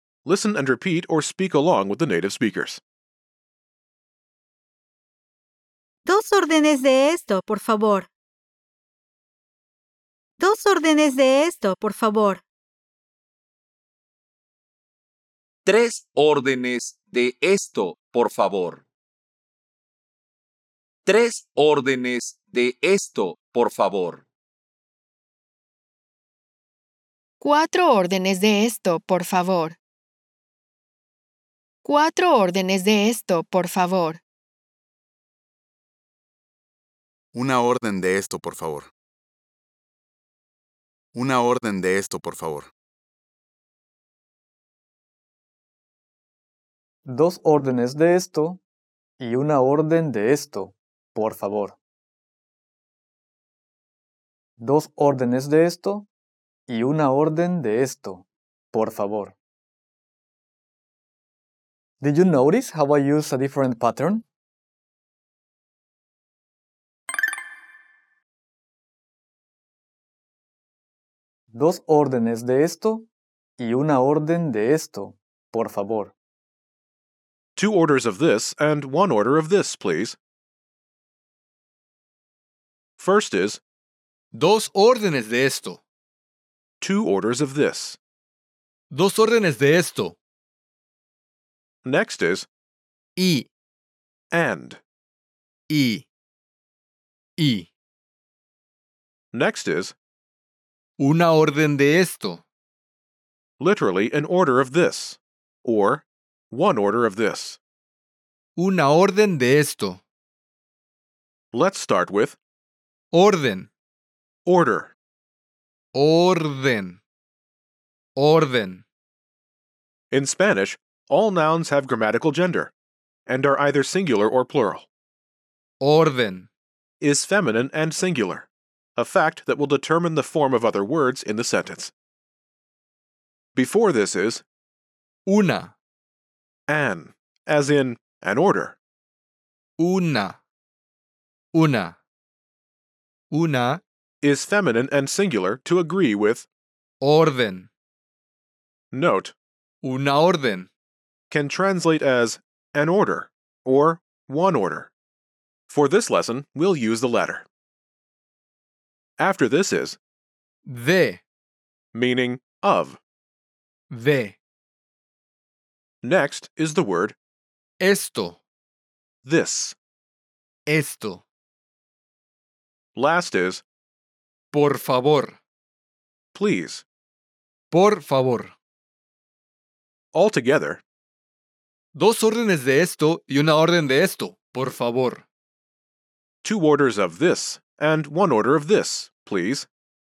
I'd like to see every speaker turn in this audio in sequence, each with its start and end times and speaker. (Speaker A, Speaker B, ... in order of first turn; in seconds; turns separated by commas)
Speaker A: 0.2-2.8, Speaker B: 6.1-8.1, Speaker B: 10.4-12.4, Speaker C: 15.7-18.8, Speaker C: 21.1-24.2, Speaker D: 27.4-29.8, Speaker D: 31.8-34.2, Speaker E: 37.3-38.9, Speaker E: 41.1-42.7, Speaker F: 47.1-48.6, Speaker F: 49.2-51.8, Speaker F: 54.6-56.1, Speaker F: 56.7-59.4, Speaker F: 62.0-64.2, Speaker F: 71.5-73.1, Speaker F: 73.6-76.1, Speaker A: 77.6-80.2, Speaker A: 83.0-83.6, Speaker G: 84.3-85.8, Speaker A: 86.8-88.0, Speaker G: 88.9-90.2, Speaker A: 91.8-92.5, Speaker G: 93.2-93.5, Speaker A: 94.3-94.8, Speaker G: 95.7-96.1, Speaker G: 97.4-97.7, Speaker A: 99.3-100.0, Speaker G: 101.0-102.4, Speaker A: 103.6-107.6, Speaker G: 108.6-110.0, Speaker A: 111.5-112.4, Speaker G: 113.1-113.7, Speaker A: 114.5-115.0, Speaker G: 116.0-117.0, Speaker G: 118.2-118.8, Speaker A: 120.1-122.7, Speaker A: 123.3-124.9, Speaker G: 125.8-126.5, Speaker A: 127.0-131.9, Speaker A: 133.6-134.4, Speaker G: 135.3-135.7, Speaker A: 136.7-138.8, Speaker G: 139.8-140.4, Speaker G: 141.5-142.0, Speaker G: 143.3-143.8, Speaker A: 144.2-146.5, Speaker G: 147.0-147.7, Speaker A: 148.9-149.3, Speaker G: 149.8-150.7, Speaker A: 151.3-154.9, Speaker A: 155.7-157.5, Speaker A: 159.2-160.0, Speaker G: 160.7-161.2, Speaker A: 161.9-163.0, Speaker G: 163.9-164.4, Speaker A: 166.0-167.2, Speaker G: 167.8-168.4, Speaker A: 169.2-169.8, Speaker G: 170.7-171.2, Speaker A: 173.0-173.6, Speaker G: 174.5-175.4, Speaker A: 176.3-176.8, Speaker G: 177.7-178.5, Speaker A: 180.1-180.8, Speaker G: 181.9-185.2, Speaker A: 186.4-189.7